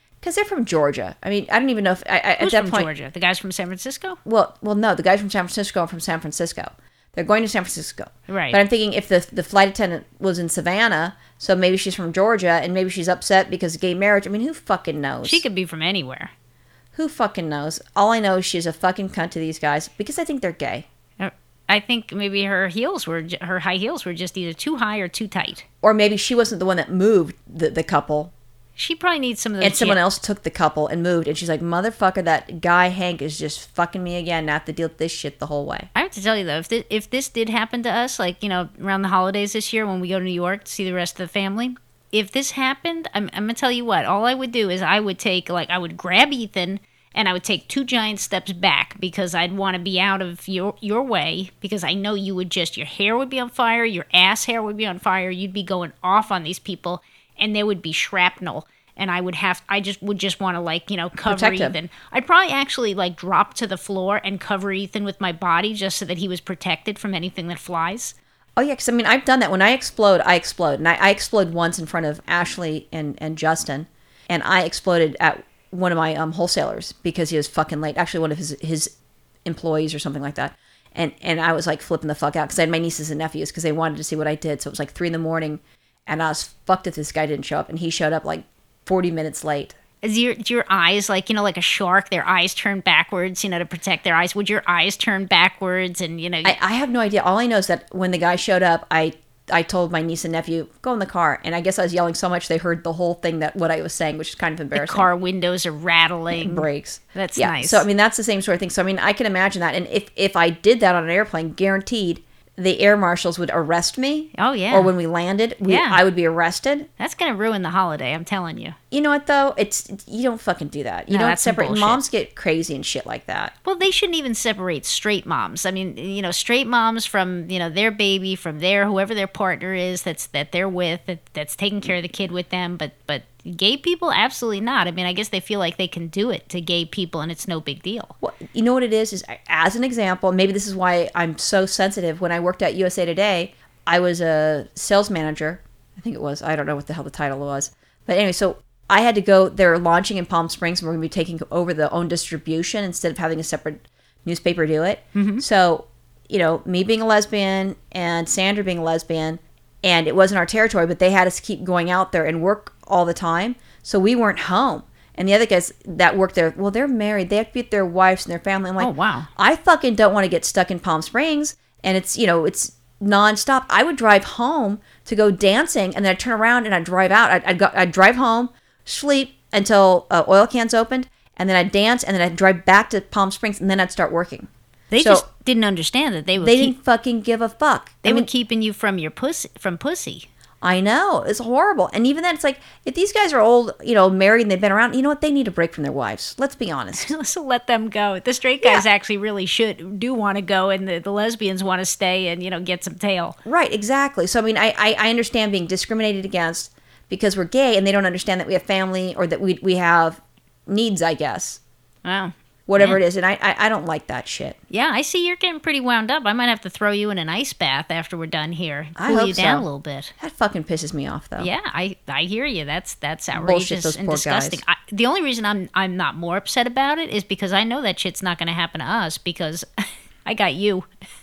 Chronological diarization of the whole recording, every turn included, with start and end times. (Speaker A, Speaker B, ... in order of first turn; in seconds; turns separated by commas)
Speaker A: 0.2-2.9, Speaker B: 2.4-4.2, Speaker A: 4.2-15.4, Speaker B: 8.3-8.6, Speaker B: 15.2-16.3, Speaker A: 16.9-20.9, Speaker B: 21.2-25.6, Speaker A: 25.8-28.3, Speaker B: 28.8-30.0, Speaker A: 29.6-35.9, Speaker B: 35.9-68.1, Speaker A: 61.2-61.8, Speaker A: 68.6-78.9, Speaker A: 79.4-89.7, Speaker B: 90.0-96.5, Speaker A: 96.4-105.1, Speaker B: 104.7-107.8, Speaker A: 106.3-116.9, Speaker B: 114.3-114.9, Speaker B: 115.7-116.0, Speaker B: 117.0-118.8, Speaker A: 118.9-123.5, Speaker B: 121.1-122.0, Speaker B: 123.6-138.1, Speaker A: 138.2-185.2, Speaker B: 155.1-155.4, Speaker B: 168.8-169.3, Speaker B: 184.9-186.7, Speaker A: 186.4-188.3, Speaker B: 188.0-190.2, Speaker A: 190.6-197.1, Speaker B: 196.9-203.3, Speaker A: 203.4-211.6, Speaker B: 212.0-213.0, Speaker A: 212.7-214.6, Speaker B: 214.7-220.1, Speaker A: 218.9-219.7, Speaker A: 220.2-221.5, Speaker B: 221.4-229.7, Speaker A: 223.3-224.6, Speaker B: 230.2-230.9